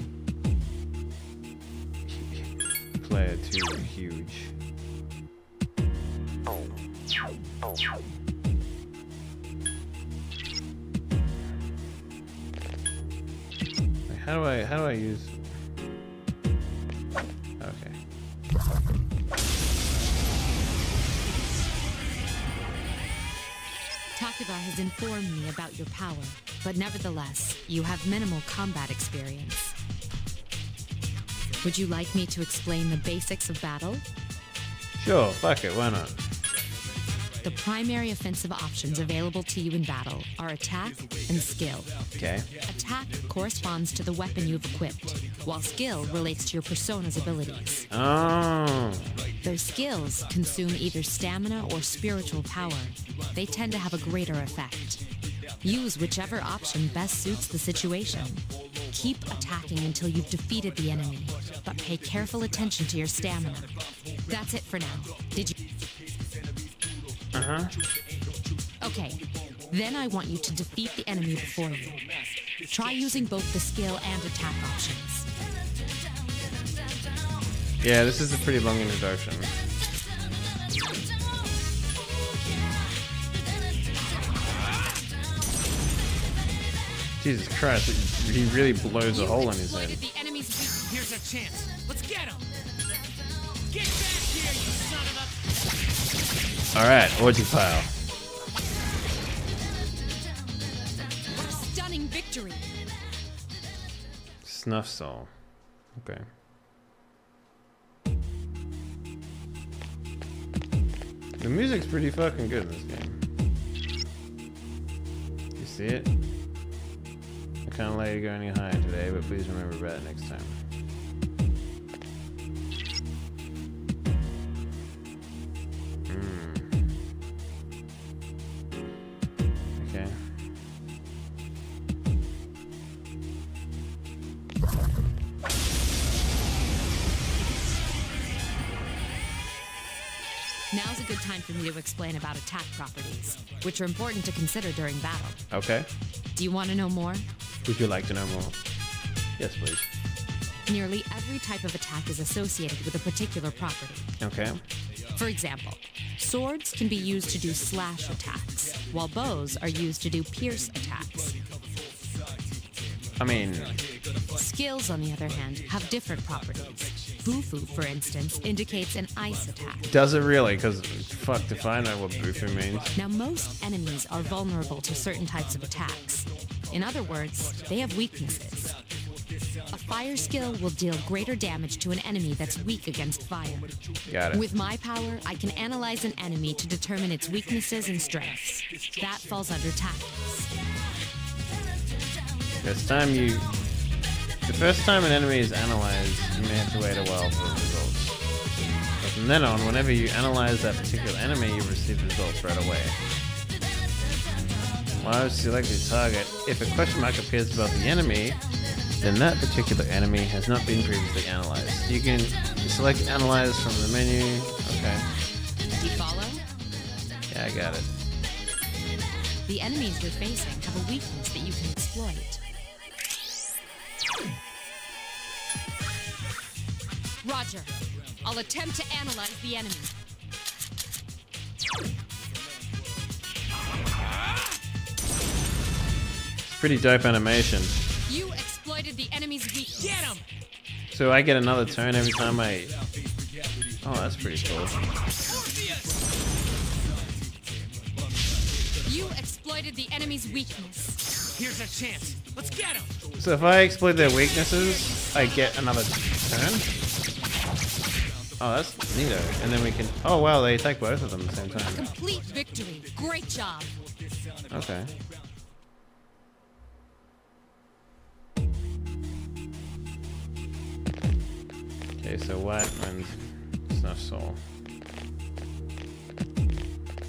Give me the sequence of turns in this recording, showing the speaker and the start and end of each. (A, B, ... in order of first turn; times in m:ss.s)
0:02.1-0:04.5 A
0:14.1-0:15.4 A
0:17.6-0:18.0 A
0:24.2-0:29.8 B
0:31.6-0:34.0 B
0:35.0-0:36.2 A
0:37.4-0:42.0 B
0:42.2-0:42.5 A
0:42.7-0:47.8 B
0:47.9-0:49.2 A
0:49.4-0:55.0 B
0:55.6-1:03.7 B
1:04.3-1:05.6 B
1:07.3-1:07.8 A
1:08.8-1:12.0 B
1:12.7-1:15.3 B
1:17.8-1:19.5 A
1:27.2-1:30.0 A
1:29.1-1:30.9 B
1:30.8-1:32.4 C
1:33.7-1:35.4 C
1:36.8-1:37.9 A
1:41.3-1:42.7 B
1:44.4-1:45.3 A
1:46.0-1:46.2 A
1:51.4-1:53.2 A
1:55.6-1:56.1 A
1:57.7-2:00.6 A
2:06.1-2:06.7 A
2:09.8-2:10.2 A
2:20.7-2:25.4 B
2:25.5-2:25.9 A
2:26.4-2:27.3 B
2:27.6-2:28.6 A
2:29.4-2:29.9 A
2:30.7-2:34.1 B
2:34.2-2:34.6 A
2:35.1-2:41.4 B
2:43.2-2:43.8 A
2:44.3-2:49.9 B
2:49.9-2:52.9 A
2:53.0-2:58.8 B
2:59.7-3:03.8 B
3:04.1-3:04.4 A
3:04.3-3:10.5 B
3:12.6-3:13.5 A
3:14.4-3:18.2 A
3:19.0-3:23.0 A
3:24.9-3:28.4 A
3:29.0-3:35.1 A
3:35.7-3:36.4 B
3:37.3-3:37.9 A
3:39.5-3:42.4 B
3:47.2-3:49.9 B
3:56.4-3:57.8 A
3:58.1-4:00.2 B
3:59.8-4:00.2 C
4:00.9-4:02.8 A
4:03.8-4:04.7 A
4:05.3-4:05.9 B
4:08.8-4:12.2 B
4:11.5-4:12.9 C
4:13.2-4:16.7 A
4:18.4-4:21.9 A
4:21.7-4:23.7 B
4:24.5-4:24.9 A
4:32.0-4:34.4 A